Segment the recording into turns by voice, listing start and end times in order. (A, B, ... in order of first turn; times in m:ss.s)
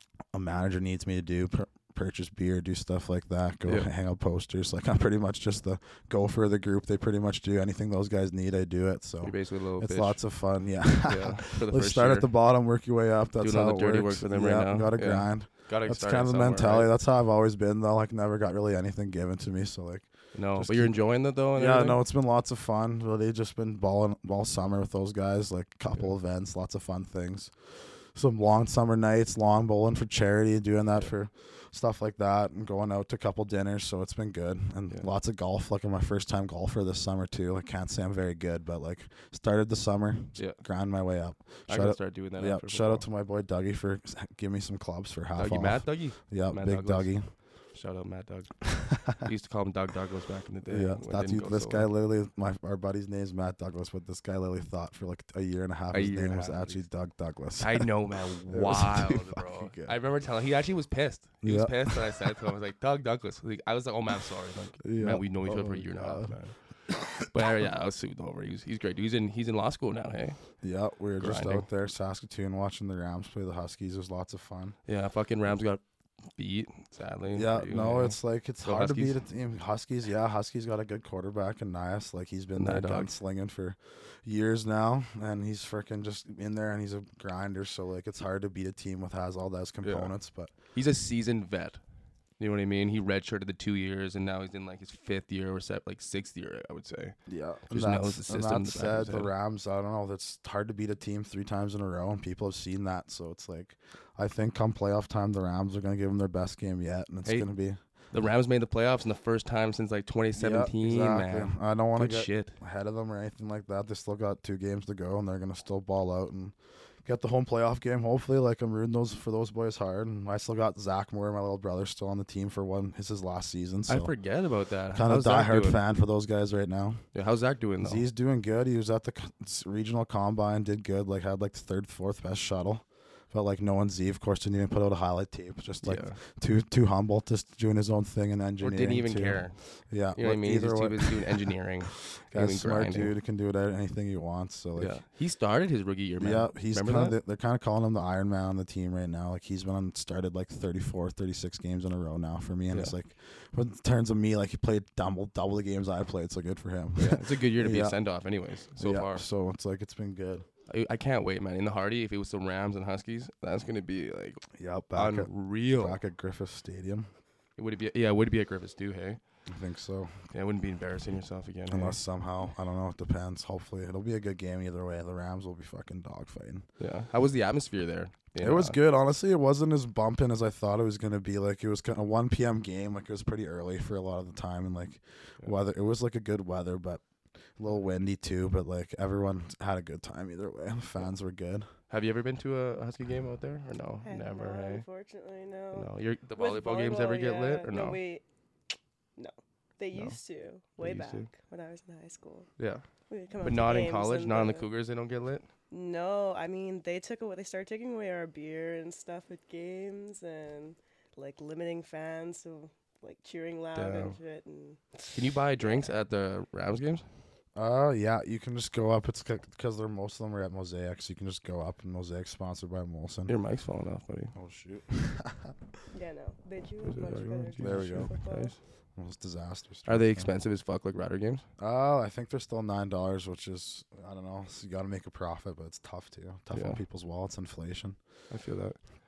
0:00.3-0:47.3 A
0:09.2-0:10.3 B
0:11.0-0:12.3 B
0:13.4-0:16.9 B
0:20.3-0:22.0 B
0:40.4-0:40.6 B
0:41.7-0:43.0 B
0:45.4-0:51.9 B
0:48.9-0:49.2 A
0:50.7-1:00.0 A
0:55.9-0:56.9 B
0:57.6-1:10.4 B
1:01.4-1:02.3 A
1:04.8-1:06.4 A
1:10.6-1:14.8 A
1:11.2-1:11.6 B
1:14.8-1:15.8 B
1:16.3-1:19.2 B
1:17.3-1:30.5 A
1:22.6-1:23.1 B
1:29.8-1:30.1 B
1:30.6-1:31.8 B
1:32.4-1:39.3 B
1:37.2-1:47.8 A
1:48.1-1:52.6 B
1:50.3-2:04.1 A
2:03.9-2:05.8 B
2:04.9-2:07.0 A
2:07.1-2:08.0 B
2:07.8-2:25.0 A
2:15.8-2:16.2 B
2:18.6-2:23.1 B
2:24.8-2:27.2 B
2:26.2-2:38.0 A
2:37.0-2:39.2 B
2:38.8-2:40.4 A
2:40.7-2:46.0 B
2:44.5-2:47.1 A
2:47.6-2:49.2 B
2:49.5-2:50.2 A
2:50.3-2:52.0 B
2:51.7-2:56.7 A
2:56.8-2:58.8 B
2:58.4-3:11.7 A
3:11.9-3:14.8 B
3:14.0-3:18.2 C
3:15.7-3:18.0 B
3:19.2-3:22.5 C
3:19.9-3:20.2 B
3:20.8-3:21.3 B
3:22.6-3:22.8 B
3:23.1-3:24.7 C
3:23.4-3:25.4 B
3:25.7-3:36.0 C
3:33.7-3:34.2 B
3:35.1-3:37.0 B
3:37.6-3:43.3 A
3:43.3-3:44.3 B
3:44.3-3:45.6 A
3:45.9-3:48.6 C
3:46.8-3:48.6 B
3:47.6-3:48.1 A
3:49.0-3:50.3 A
3:49.8-3:51.4 B
3:51.6-3:58.0 A
3:56.5-3:56.8 B
3:58.3-3:58.8 B